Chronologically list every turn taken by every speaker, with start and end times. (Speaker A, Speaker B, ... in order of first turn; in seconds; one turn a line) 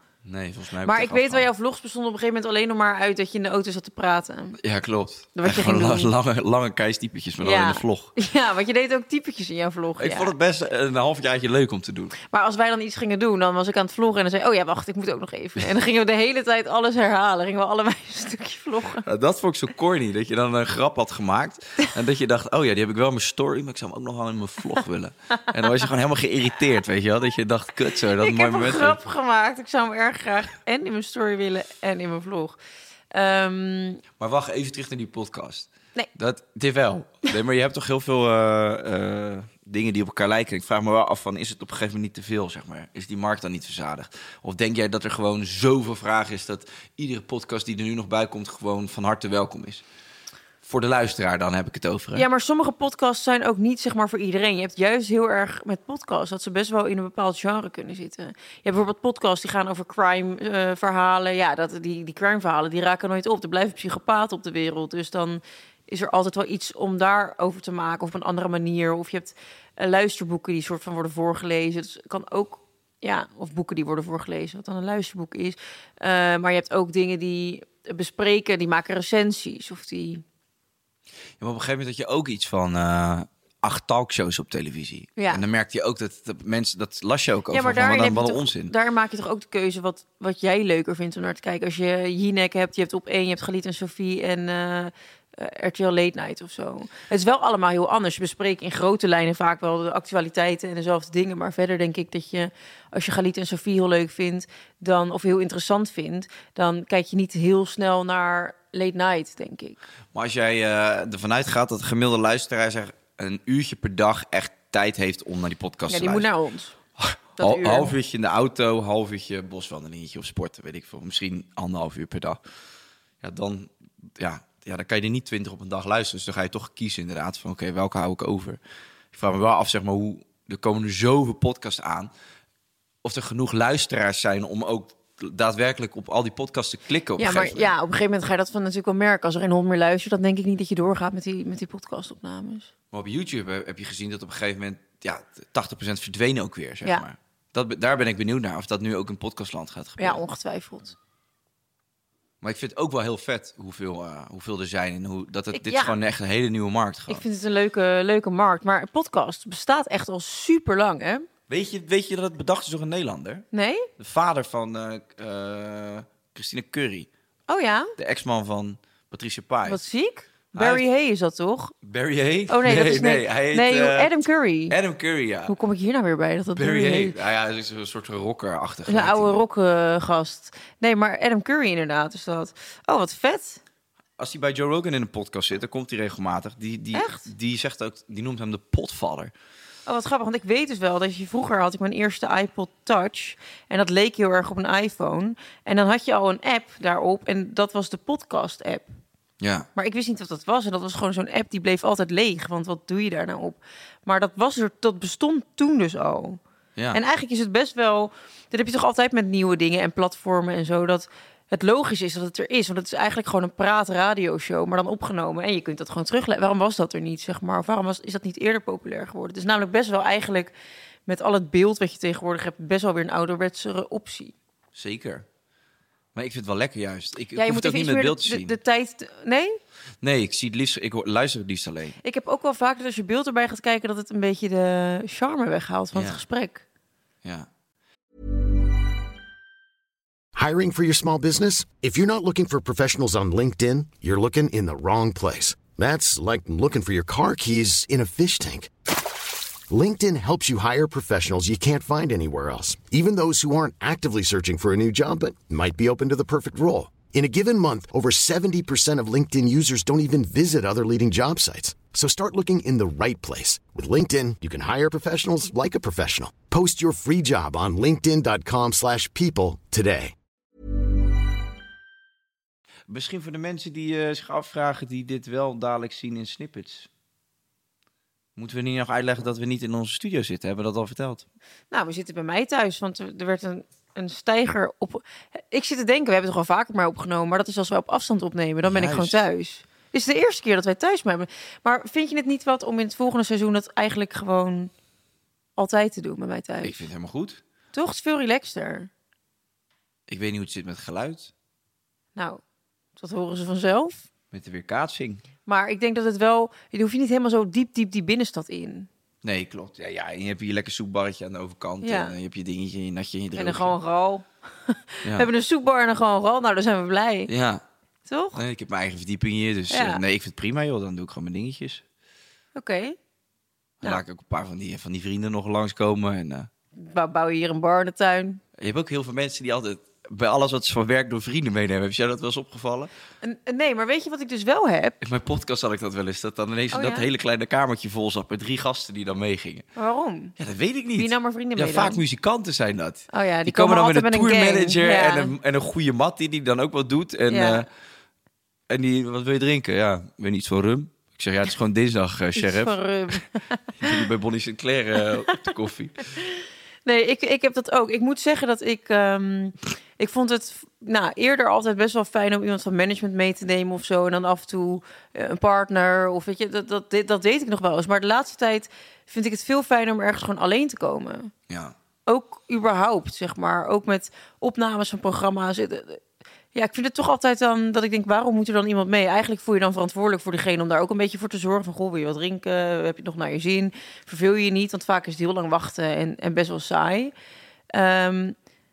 Speaker A: 0.2-1.5
Speaker B: 0.8-4.6
Speaker A: 4.6-8.1
Speaker B: 5.3-6.1
Speaker B: 7.4-10.3
Speaker A: 10.0-12.2
Speaker B: 12.3-19.0
Speaker A: 19.0-29.0
Speaker B: 28.2-32.6
Speaker B: 33.1-34.0
Speaker A: 34.2-49.8
Speaker A: 50.6-52.2
Speaker B: 52.1-80.2
Speaker A: 81.4-88.7
Speaker B: 85.2-85.4
Speaker B: 87.5-109.8
Speaker A: 110.1-116.2
Speaker B: 115.9-116.7
Speaker A: 117.0-122.4
Speaker B: 117.4-117.9
Speaker A: 123.2-128.6
Speaker A: 129.1-132.1
Speaker A: 133.0-137.7
Speaker B: 137.2-142.7
Speaker A: 142.9-150.2
Speaker B: 150.0-150.9
Speaker A: 152.4-157.2
Speaker B: 155.5-155.9
Speaker B: 157.1-161.3
Speaker A: 161.5-163.4
Speaker B: 163.5-163.9
Speaker A: 164.0-167.1
Speaker B: 167.5-167.9
Speaker A: 168.0-169.8
Speaker B: 169.6-171.7
Speaker A: 170.5-170.8
Speaker A: 171.8-174.1
Speaker B: 172.5-174.7
Speaker A: 174.7-175.5
Speaker B: 175.5-177.2
Speaker A: 176.6-179.4
Speaker B: 178.9-183.6
Speaker A: 184.2-189.3
Speaker B: 186.9-187.3
Speaker B: 189.8-198.9
Speaker A: 199.4-199.7
Speaker B: 199.8-206.4
Speaker B: 206.9-220.5
Speaker B: 221.1-224.3
Speaker A: 224.7-225.2
Speaker A: 226.1-228.5
Speaker B: 227.3-229.6
Speaker A: 230.0-232.0
Speaker B: 232.0-236.6
Speaker A: 235.9-236.2
Speaker C: 240.3-248.7
Speaker C: 249.7-270.1
Speaker A: 272.9-276.9
Speaker A: 278.4-281.3
Speaker B: 281.7-294.7
Speaker A: 288.6-289.2
Speaker B: 295.6-296.9
Speaker A: 296.6-297.4
Speaker B: 297.7-298.9
Speaker A: 300.1-301.3
Speaker B: 302.1-302.4
Speaker B: 303.0-304.0
Speaker A: 304.3-305.2
Speaker B: 305.4-308.9
Speaker A: 309.2-313.7
Speaker B: 311.8-312.1
Speaker B: 313.4-317.3
Speaker A: 317.3-317.6
Speaker B: 318.1-318.4
Speaker A: 318.4-321.8
Speaker B: 319.7-320.0
Speaker B: 322.6-323.0
Speaker A: 323.8-326.5
Speaker B: 326.8-328.4
Speaker A: 328.6-332.9
Speaker B: 333.2-334.9
Speaker A: 335.0-339.6
Speaker B: 336.7-337.1
Speaker B: 339.8-340.3
Speaker A: 340.4-347.7
Speaker B: 341.0-342.0
Speaker B: 343.1-345.3
Speaker B: 347.3-347.6
Speaker A: 348.7-353.2
Speaker B: 352.4-354.1
Speaker A: 353.8-356.1
Speaker B: 356.9-371.3
Speaker A: 371.5-371.7
Speaker B: 372.1-376.0
Speaker B: 376.5-387.1
Speaker B: 387.7-388.4